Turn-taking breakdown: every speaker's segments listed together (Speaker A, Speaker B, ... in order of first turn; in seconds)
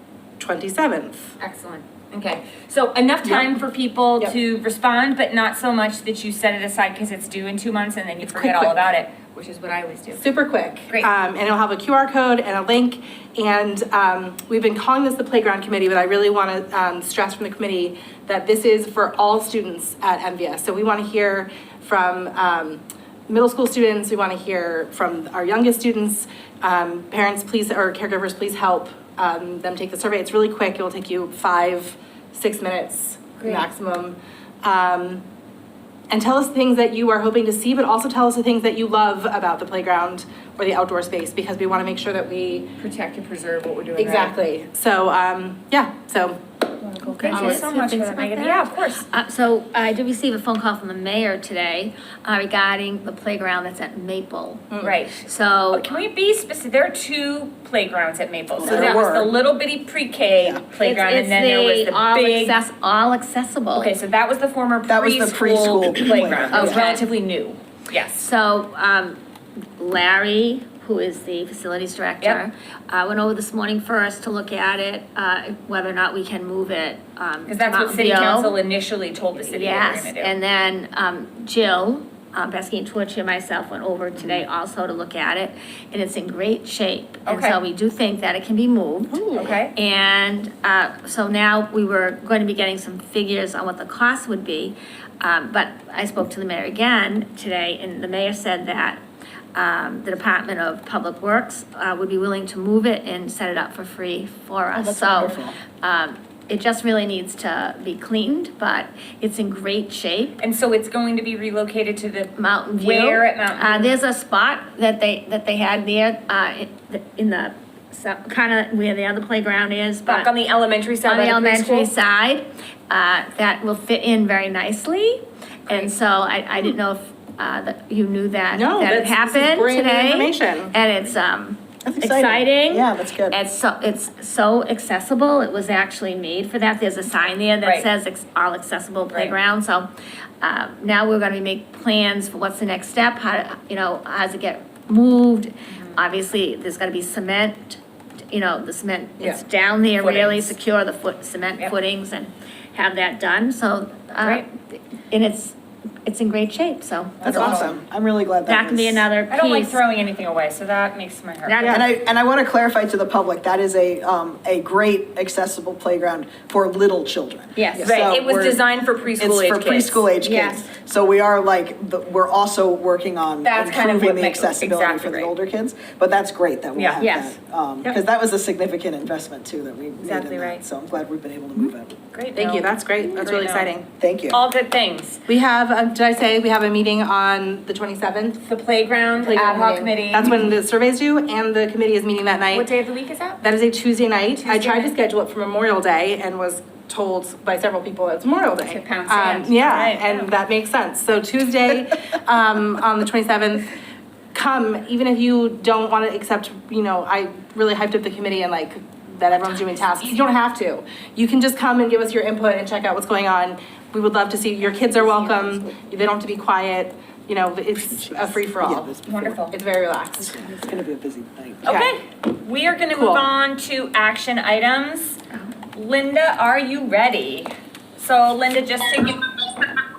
Speaker A: 0.4-1.3, 3.3-3.5, 8.2-8.9, 10.2-35.2, 36.1-42.7, 44.0-46.4, 47.3-47.6, 54.7-55.0, 89.1-89.5, 128.5-130.7, 182.3-183.9, 185.3-188.4, 189.2-192.7, 193.4-203.7, 204.3-218.9, 219.5-220.4, 221.7-221.9, 222.9-223.3
Speaker B: 1.4-10.3, 33.4-33.7, 42.8-44.4, 46.8-49.1, 54.8-62.6, 63.7-68.3, 77.5-80.3, 87.3-87.6, 89.3-89.7, 110.4-113.9, 120.1-121.9, 137.6-137.9, 145.7-146.0, 150.0-150.6, 157.2-157.8, 159.3-161.9, 167.8-170.1, 173.4-175.3, 176.8-177.0, 180.0-180.6, 182.1-183.7, 184.3-185.2, 188.4-190.4, 192.5-193.4, 194.4-194.9, 198.5-200.3, 219.1-219.6, 221.6-225.2, 225.7-229.2
Speaker C: 47.0-54.7, 55.2-55.9, 58.6-59.1, 60.8-63.9, 66.5-67.1, 68.2-69.2, 69.8-78.6, 79.3-99.0, 99.5-110.4, 112.4-120.3, 121.0-139.9, 140.4-147.8, 148.3-157.8, 158.5-159.8, 161.5-161.9, 167.6-167.9, 170.2-170.7, 177.0-177.3, 214.6-215.9
Speaker D: 58.6-59.3, 60.4-60.6, 64.9-67.0, 104.7-105.6, 131.8-133.4, 157.2-159.1, 161.7-168.6, 169.2-181.9, 184.0-184.4, 217.9-219.4, 220.3-221.8